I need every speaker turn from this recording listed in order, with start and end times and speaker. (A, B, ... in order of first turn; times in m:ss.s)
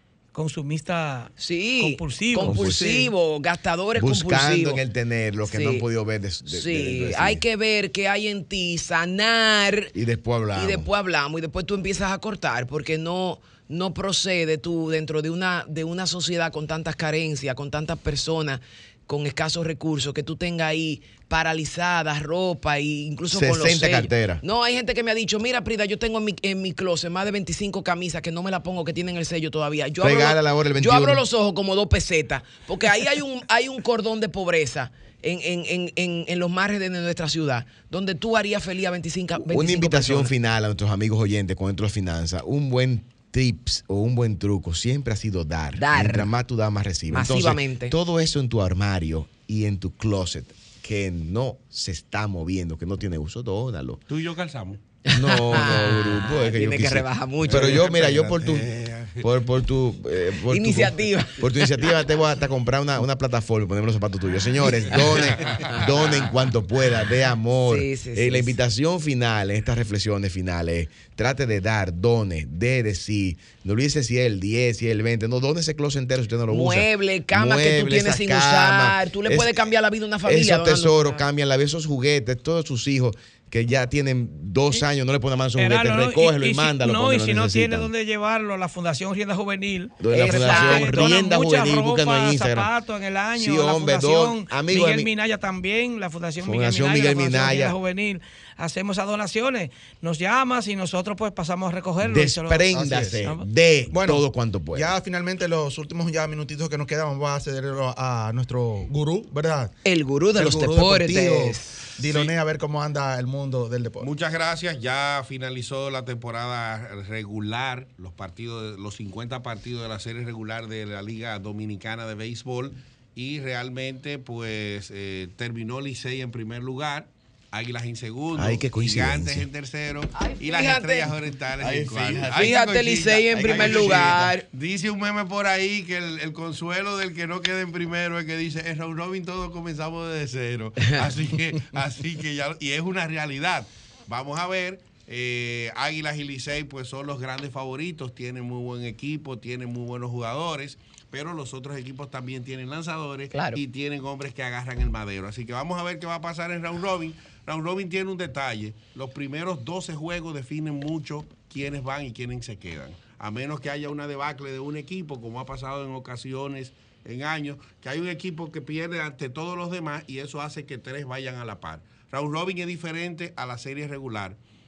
0:00.3-0:02.9 A
0:01.4-0:04.8 B
0:02.4-0:03.0 C
0:03.9-0:07.4 C
0:05.4-0:05.8 B
0:06.5-0:09.9 B
0:09.9-0:10.9 C
0:10.5-0:40.3 B
0:23.3-0:24.4 C
0:30.0-0:31.2 C
0:39.4-0:54.0 C
0:45.8-0:46.3 B
0:47.1-0:47.9 B
0:54.1-0:54.8 D
0:55.0-0:57.8 B
0:55.1-1:19.7 C
0:57.4-0:59.3 D
1:00.5-1:01.8 B
1:05.0-1:05.9 D
1:07.6-1:08.6 B
1:16.5-1:21.0 B
1:20.2-1:27.9 C
1:25.6-1:43.4 A
1:30.0-1:32.7 C
1:30.1-1:31.1 B
1:33.4-1:35.1 C
1:36.4-1:37.8 C
1:42.0-1:44.9 C
1:42.7-1:43.2 E
1:43.9-1:49.7 E
1:49.8-1:51.8 B
1:50.3-1:54.1 E
1:52.0-1:52.3 D
1:54.0-2:54.4 D
2:08.3-2:09.5 C
2:10.2-2:11.1 B
2:11.6-2:12.6 C
2:12.3-2:14.4 B
2:13.4-2:14.1 C
2:33.3-2:33.6 B